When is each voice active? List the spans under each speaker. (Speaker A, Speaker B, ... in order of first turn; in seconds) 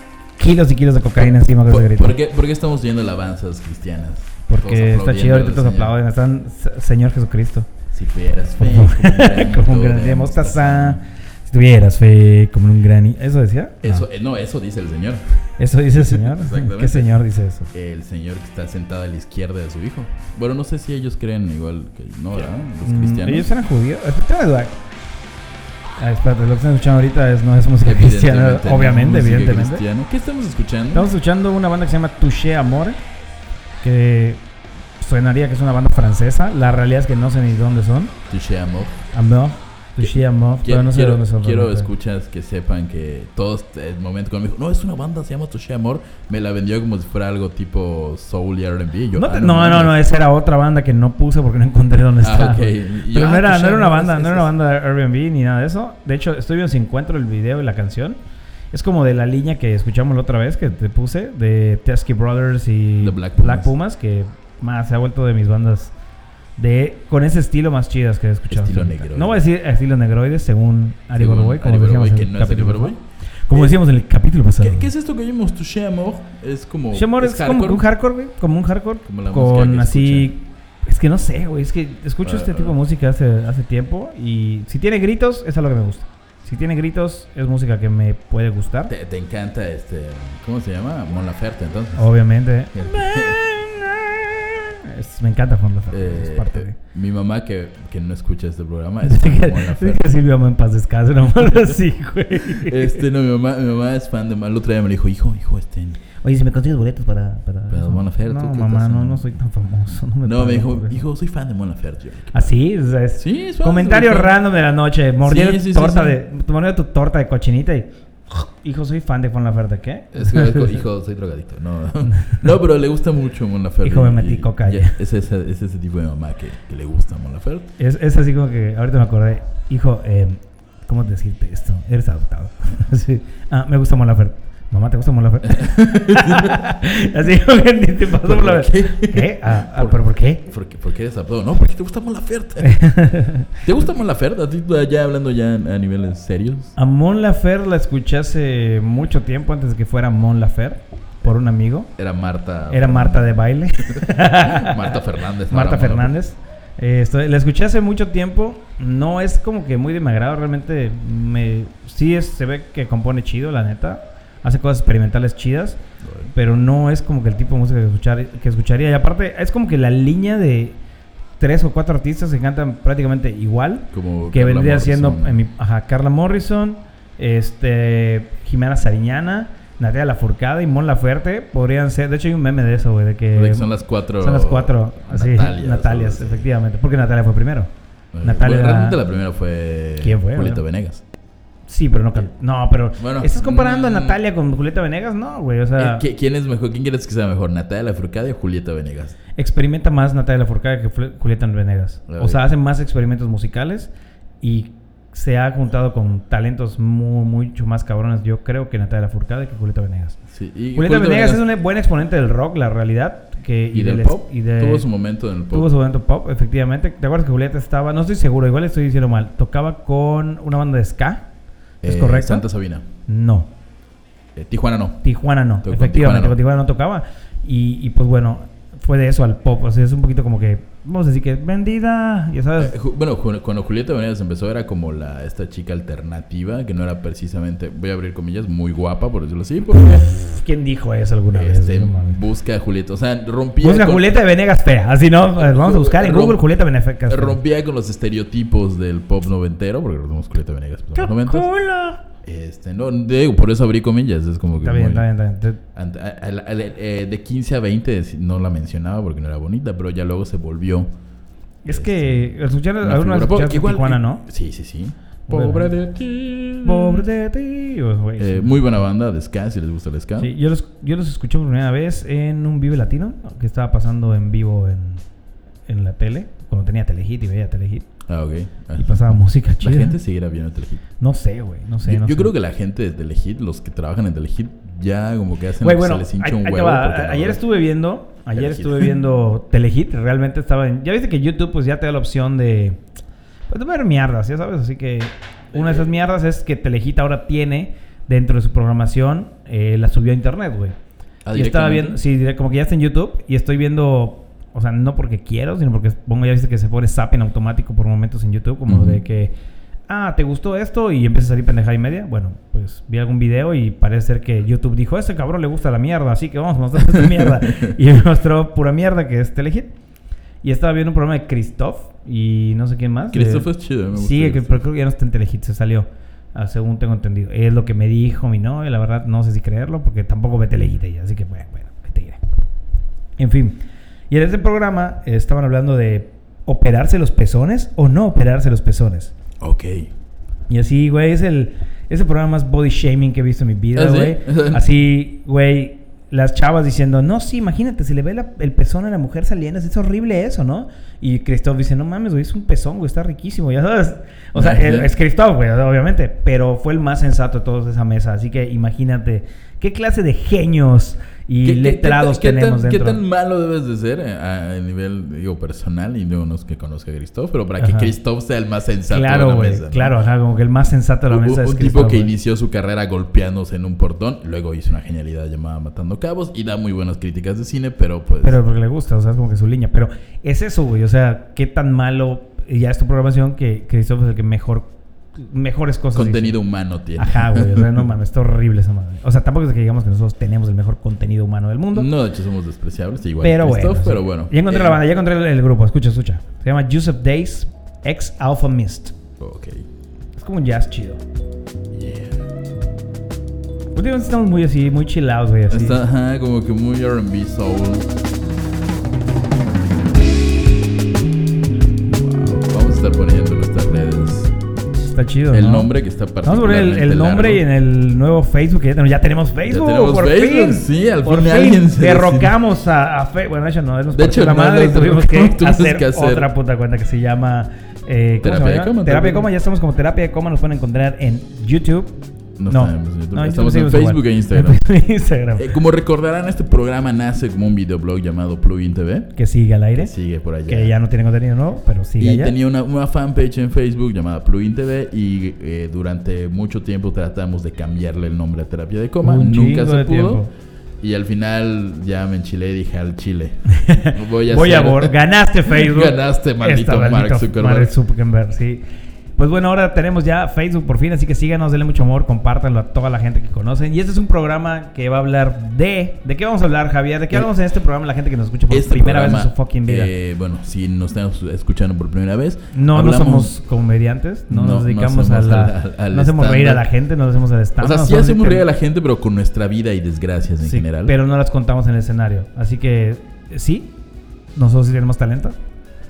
Speaker A: 0.4-2.2, 4.5-7.7, 8.6-14.1, 15.6-17.7, 22.8-24.8, 26.0-29.8, 30.9-33.0, 33.8-34.4, 35.0-38.1, 39.1-41.9, 49.2-58.2, 58.7-65.9, 66.6-73.0, 73.5-74.9, 76.9-88.9, 92.0-96.8, 99.0-103.0, 106.2-111.0, 112.3-120.8, 122.1-122.5, 123.8-125.0, 127.8-140.4, 142.6-143.5, 146.8-151.9, 152.7-154.9, 155.5-170.8, 171.4-187.7, 188.2-189.0, 190.0-190.6, 191.7-196.1, 199.4-203.9, 204.4-210.2, 210.8-214.9, 215.5-221.3, 221.8-222.5, 223.1-223.5, 225.0-232.8, 240.1-242.2, 243.6-247.4, 250.9-252.0, 254.6-255.6, 261.6-264.2, 265.3-265.7, 266.6-268.6, 270.2-275.0, 275.7-277.9, 278.8-280.0, 281.0-282.3, 285.6-292.8, 293.5-300.8, 301.3-309.3, 309.9-319.7, 320.4-332.2, 333.2-333.6, 334.1-339.1, 340.5-363.0, 367.6-367.9, 368.9-372.1, 378.2-386.4, 387.0-391.9, 393.2-398.9, 400.2-401.0, 403.7-405.8, 414.8-415.7, 416.2-431.9, 432.5-435.6, 439.2-439.9, 440.5-442.3, 449.0-450.3, 453.5-458.6, 459.2-469.9, 472.5-478.4, 480.4-483.7, 484.4-485.4
Speaker B: 1.7-6.0, 7.9-11.0, 13.8-15.2, 15.9-17.1, 17.7-23.5, 27.8-31.1, 38.3-39.0, 40.0-50.0, 52.2-54.5, 63.0-63.7, 68.5-69.4, 71.1-73.0, 73.5-73.8, 74.6-77.9, 79.1-80.3, 82.2-82.8, 88.9-92.1, 92.7-93.4, 95.9-100.1, 102.5-106.0, 107.7-109.3, 110.2-112.5, 113.2-114.4, 115.2-116.2, 120.1-127.7, 135.4-136.7, 138.1-142.8, 143.6-146.8, 152.0-153.3, 153.9-156.2, 166.0-166.3, 173.9-175.4, 183.3-186.5, 188.1-191.0, 193.0-194.2, 195.8-199.2, 202.1-202.4, 210.3-211.4, 213.7-215.7, 221.8-222.9, 224.3-225.0, 225.6-226.4, 232.6-240.1, 241.3-244.2, 245.3-246.4, 247.1-251.5, 252.2-255.1, 255.8-260.9, 261.7-267.1, 268.2-270.3, 278.1-280.8, 281.8-287.4, 288.3-289.0, 295.5-295.9, 301.2-302.0, 308.7-309.0, 316.8-317.8, 323.1-324.6, 339.4-339.9, 343.8-344.6, 354.4-354.9, 361.4-370.0, 371.1-378.4, 385.9-387.9, 391.7-394.8, 399.2-399.7, 401.7-402.3, 405.5-407.9, 411.9-414.3, 415.3-417.4, 419.4-422.4, 423.9-426.3, 428.2-429.3, 432.4-434.6, 435.4-439.1, 439.8-440.7, 442.0-450.2, 450.8-454.9, 455.5-457.7, 468.5-473.3, 474.3-476.7, 477.6-480.9